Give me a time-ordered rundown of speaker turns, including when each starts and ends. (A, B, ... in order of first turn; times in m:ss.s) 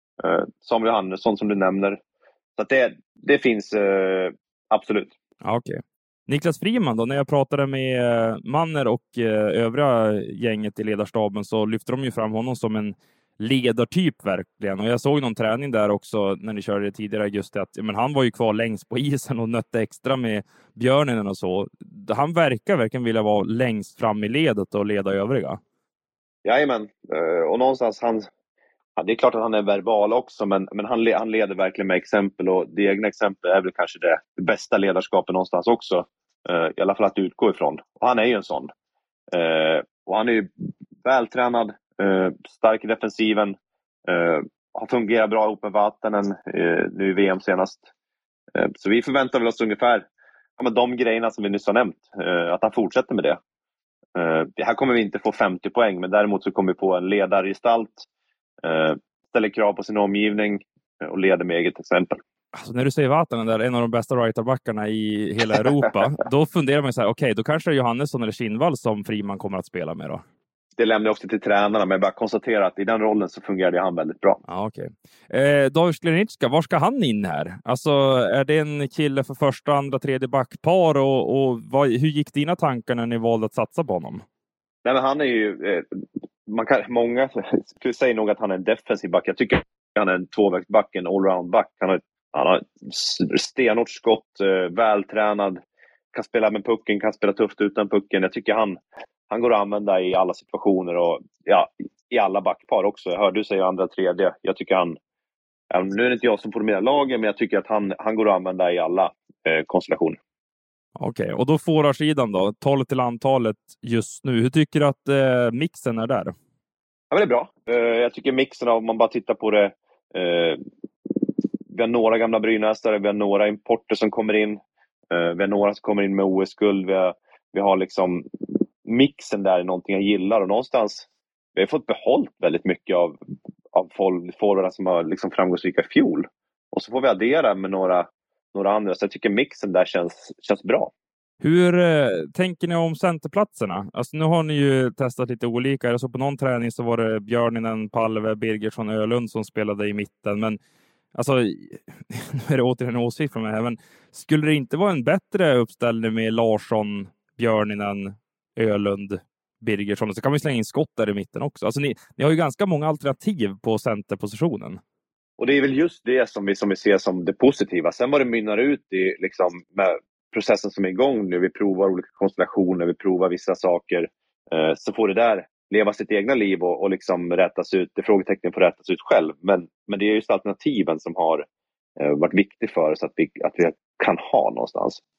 0:00.2-0:02.0 A
0:02.6-0:05.1 A
0:05.4-0:25.6 B
0:26.4-0:28.3 A
0:29.0-0:38.7 A
0:39.3-0:40.5 A
0:41.0-0:43.6 A
0:44.1-0:47.8 A
0:48.6-0:50.0 A
0:50.6-0:53.4 A
0:54.2-0:58.1 A
0:58.6-1:02.2 A
1:02.5-1:10.2 B
1:10.8-1:14.4 A
1:14.5-1:24.2 B
1:24.8-1:25.8 A
1:26.5-1:35.6 A
1:36.1-1:45.0 A
1:45.7-1:50.2 A
1:51.0-1:56.4 B
1:57.1-2:00.6 A
2:01.7-2:04.6 A
2:05.1-2:08.2 A
2:08.8-2:13.2 A
2:13.7-2:20.9 A
2:21.4-2:30.6 B
2:31.1-2:44.8 B
2:45.4-3:01.4 A
3:02.0-3:05.0 A